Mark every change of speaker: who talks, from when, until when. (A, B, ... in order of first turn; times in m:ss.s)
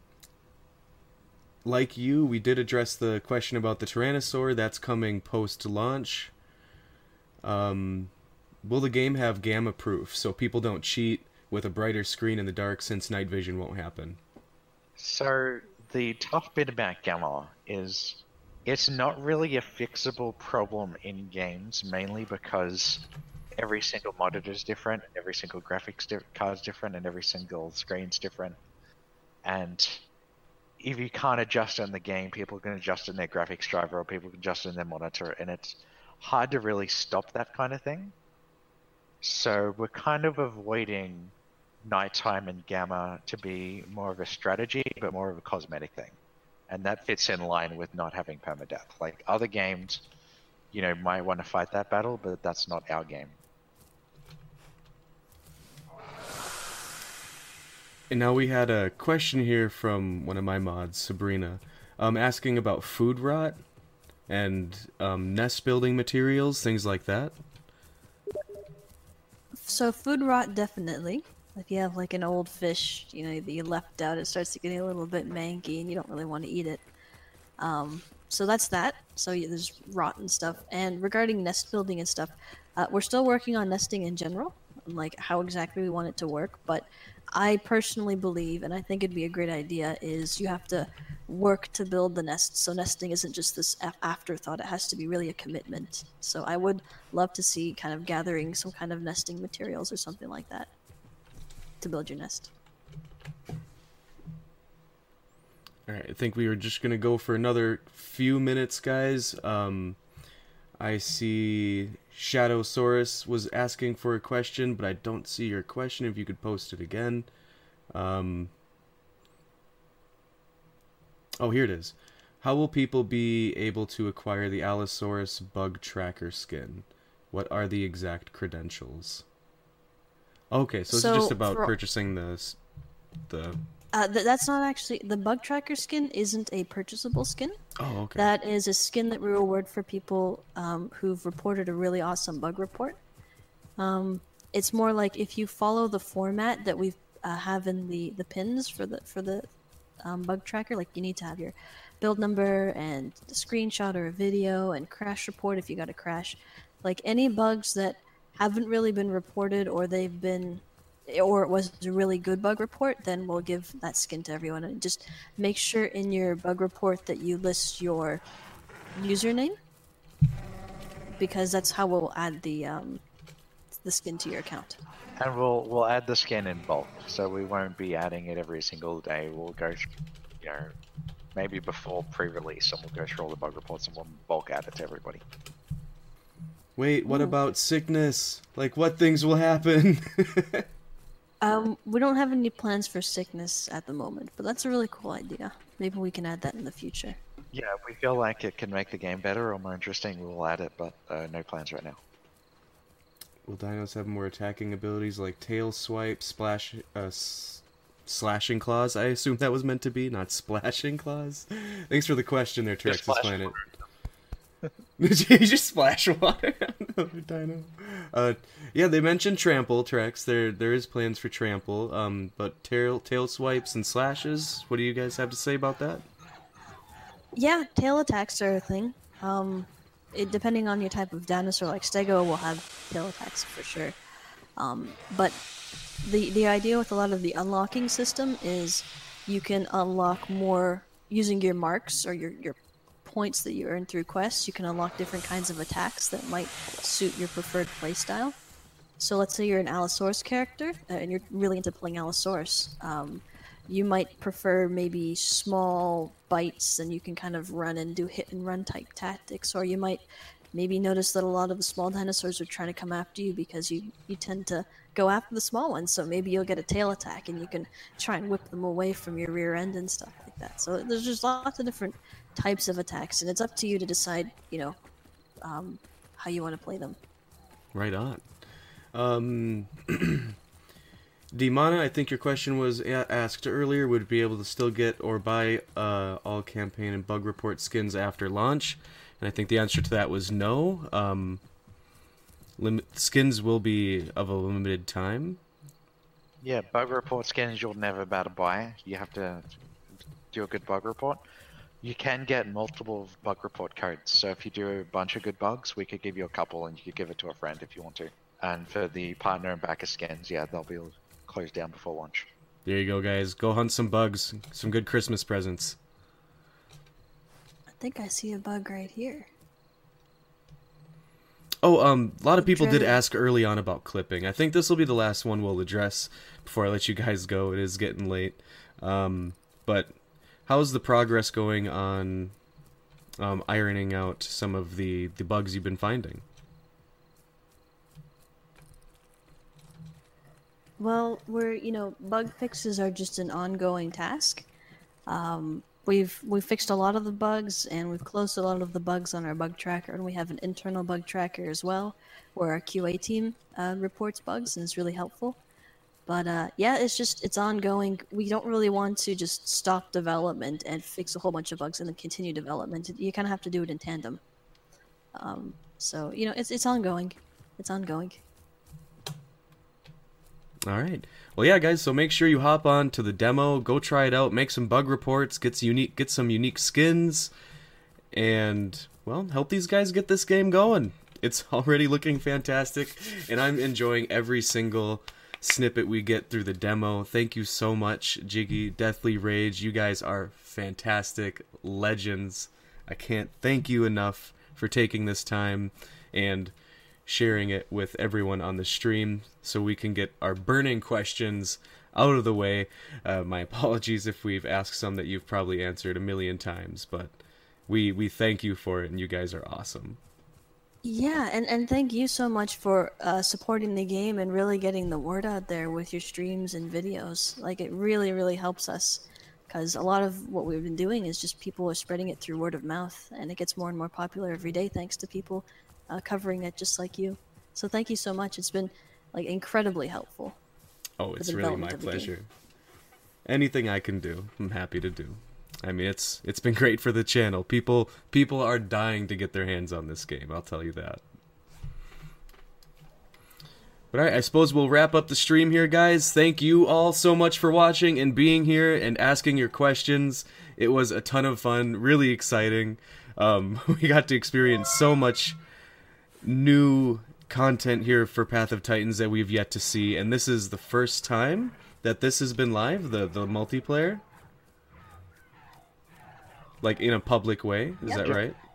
0:01.6-0:06.3 A
0:07.4-0:08.1 A
0:08.6-0:14.2 A
0:15.0-0:23.0 B
0:23.6-0:28.6 B
0:29.4-0:30.0 B
0:30.8-0:38.1 B
0:39.2-0:41.3 B
0:41.8-0:46.2 B
0:46.7-0:50.0 B
0:50.7-0:53.4 B
0:58.1-1:03.6 A
1:04.3-1:07.4 A
1:09.6-1:16.8 C
1:17.6-1:40.7 C
1:41.8-1:42.5 C
1:45.9-1:50.0 A
1:50.8-1:57.3 A
1:57.9-1:58.5 A
2:01.4-2:09.2 A
2:10.5-2:12.6 A
2:10.9-2:11.7 C
2:13.3-2:13.6 A
2:13.9-2:17.6 C
2:17.8-2:18.3 A
2:18.1-2:23.0 C
2:23.8-2:29.5 C
2:30.0-2:48.2 C
2:48.9-2:49.6 C
2:51.2-2:53.0 C
2:53.8-2:54.8 C
2:55.2-2:59.9 B
3:00.4-3:00.7 B
3:01.3-3:05.2 B
3:06.8-3:10.6 A
3:07.1-3:07.4 C
3:11.4-3:17.2 C
3:17.5-3:22.0 B
3:23.4-3:33.5 A
3:32.8-3:33.7 B
3:35.0-3:46.0 A
3:47.3-3:54.0 C
3:54.6-3:55.4 C
3:56.0-4:08.3 C
4:09.0-4:20.0 C
4:20.5-4:34.8 C
4:35.4-4:37.0 C
4:37.7-4:38.3 A
4:38.9-4:40.4 A
4:41.3-4:51.4 A
4:52.6-4:55.4 A
4:56.4-4:59.5 B
5:00.3-5:01.2 B
5:01.8-5:12.3 B
5:12.6-5:15.8 A
5:17.8-5:19.3 C
5:21.6-5:32.3 A
5:22.4-5:23.0 C
5:33.2-5:36.2 A
5:40.8-5:44.4 C
5:45.1-5:55.4 C
5:56.0-6:04.2 C
6:05.1-6:08.2 C
6:10.6-6:17.3 A
6:18.1-6:36.5 A
6:37.0-6:50.0 A
6:50.8-7:10.4 C
7:11.0-7:12.3 A
7:11.2-7:12.1 C
7:13.2-7:21.0 A
7:23.9-7:35.4 A
7:36.2-7:44.0 A
7:46.6-7:48.4 A
7:47.8-7:48.1 C